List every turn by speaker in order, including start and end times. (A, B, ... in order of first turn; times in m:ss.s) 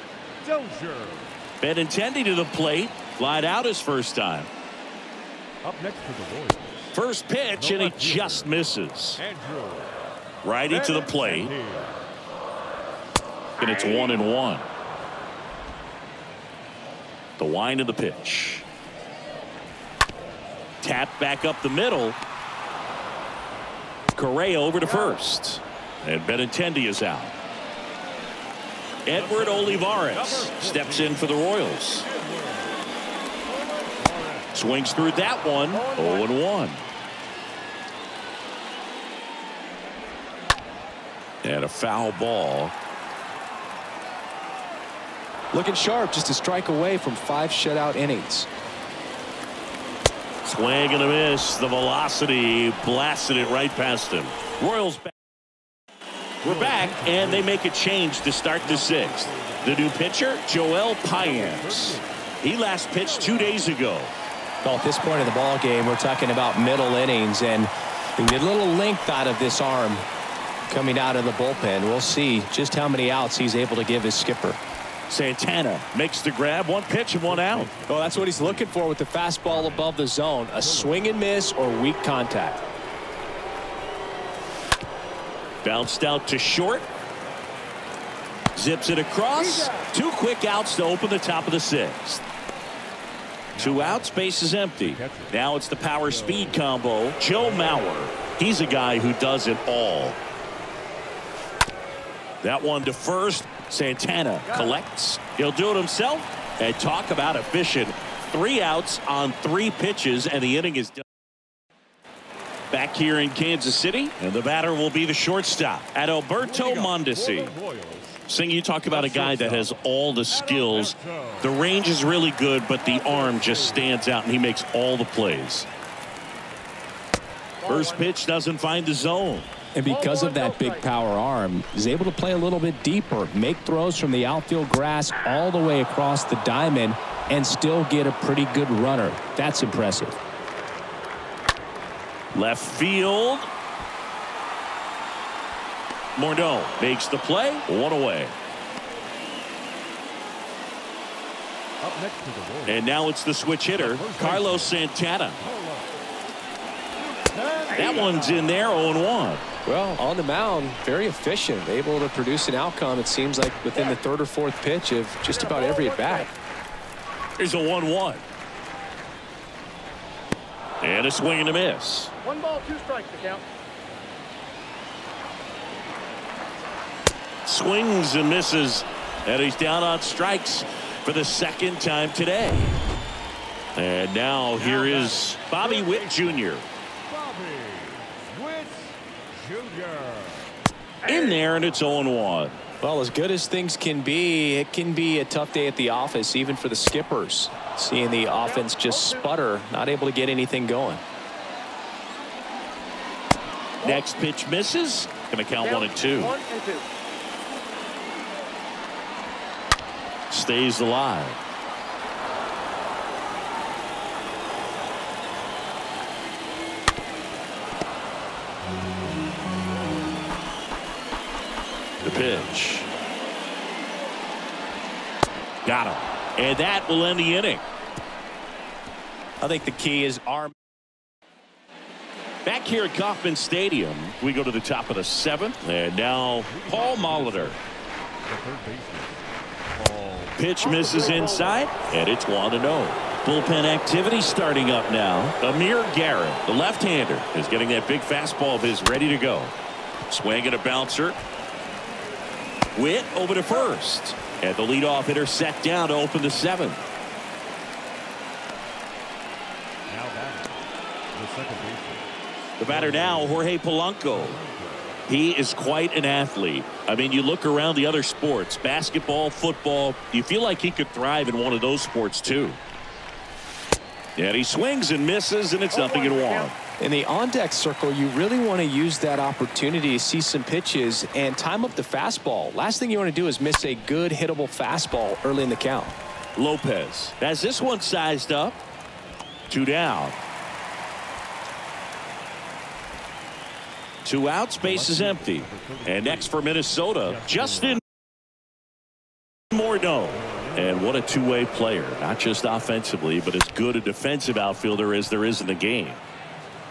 0:00.4-0:01.4 A
0:01.6-0:04.5 B
0:05.6-0:06.9 A
0:06.9-0:09.2 B
0:07.5-0:08.5 A
0:09.2-0:10.0 A
0:10.4-0:11.5 B
0:10.7-0:12.0 A
0:13.6-0:14.6 B
0:13.6-0:14.2 C
0:17.4-0:18.6 B
0:20.8-0:22.2 B
0:24.1-0:27.3 B
0:29.0-0:32.0 B
0:29.1-0:31.3 A
0:31.9-0:32.8 A
0:33.4-0:34.5 A
0:34.5-0:36.8 B
0:35.7-0:36.3 C
0:41.4-0:42.7 B
0:45.5-0:48.5 D
0:50.4-0:55.1 B
0:56.4-1:04.1 B
0:56.4-0:57.6 A
0:58.6-1:00.2 A
1:01.1-1:02.2 A
1:03.0-1:03.6 A
1:04.6-1:10.0 D
1:10.7-1:14.6 D
1:15.1-1:17.7 B
1:17.2-1:18.8 A
1:17.9-1:22.6 D
1:19.4-1:20.0 A
1:20.5-1:21.2 A
1:25.6-1:26.9 B
1:28.5-1:32.2 B
1:29.4-1:29.8 C
1:33.5-1:34.1 A
1:33.6-1:40.2 B
1:34.8-1:35.4 A
1:36.0-1:36.6 A
1:42.4-1:51.0 B
1:44.4-1:44.8 C
1:52.7-1:57.5 B
1:56.4-1:58.2 A
1:58.3-2:05.7 B
1:58.9-1:59.7 A
2:00.3-2:01.6 A
2:02.8-2:03.9 A
2:07.6-2:08.1 C
2:07.7-2:09.5 B
2:09.7-2:20.2 D
2:09.9-2:10.8 C
2:22.3-2:23.5 B
2:26.2-2:28.3 B
2:31.8-2:32.9 A
2:32.6-2:35.4 B
2:33.8-2:34.8 A
2:35.4-2:36.0 A
2:37.3-2:38.4 A
2:37.7-2:38.4 C
2:37.7-2:39.4 B
2:39.6-2:46.3 D
2:45.3-2:46.3 C
2:47.4-2:48.2 B
2:50.8-2:52.1 B
2:52.2-2:53.4 C
2:57.4-3:02.8 B
3:03.7-3:06.7 B
3:04.5-3:06.5 A
3:07.1-3:10.5 A
3:11.0-3:11.5 C
3:11.0-3:12.6 B
3:12.8-3:21.0 D
3:18.4-3:19.3 C
3:23.8-3:24.1 C
3:23.8-3:26.4 B
3:25.6-3:26.9 C
3:30.3-3:31.4 B
3:42.0-3:42.9 B
3:45.6-3:47.6 B
3:49.4-3:50.5 D
3:52.4-3:57.6 B
3:56.5-3:57.6 A
3:58.2-4:00.4 A
4:00.4-4:09.5 B
4:00.6-4:01.6 C
4:10.1-4:11.2 B
4:12.7-4:16.8 B
4:19.9-4:20.6 A
4:21.1-4:22.1 A
4:22.6-4:24.4 B
4:22.6-4:23.5 A
4:24.1-4:25.0 A
4:25.1-4:32.6 B
4:34.2-4:36.5 B
4:35.7-4:36.5 C
4:36.8-4:46.0 D
4:46.4-4:48.6 B
4:49.5-4:50.2 B
4:54.0-4:57.8 B
4:54.6-4:56.4 A
4:57.0-4:57.8 A
4:59.5-5:06.0 B
5:00.1-5:00.9 A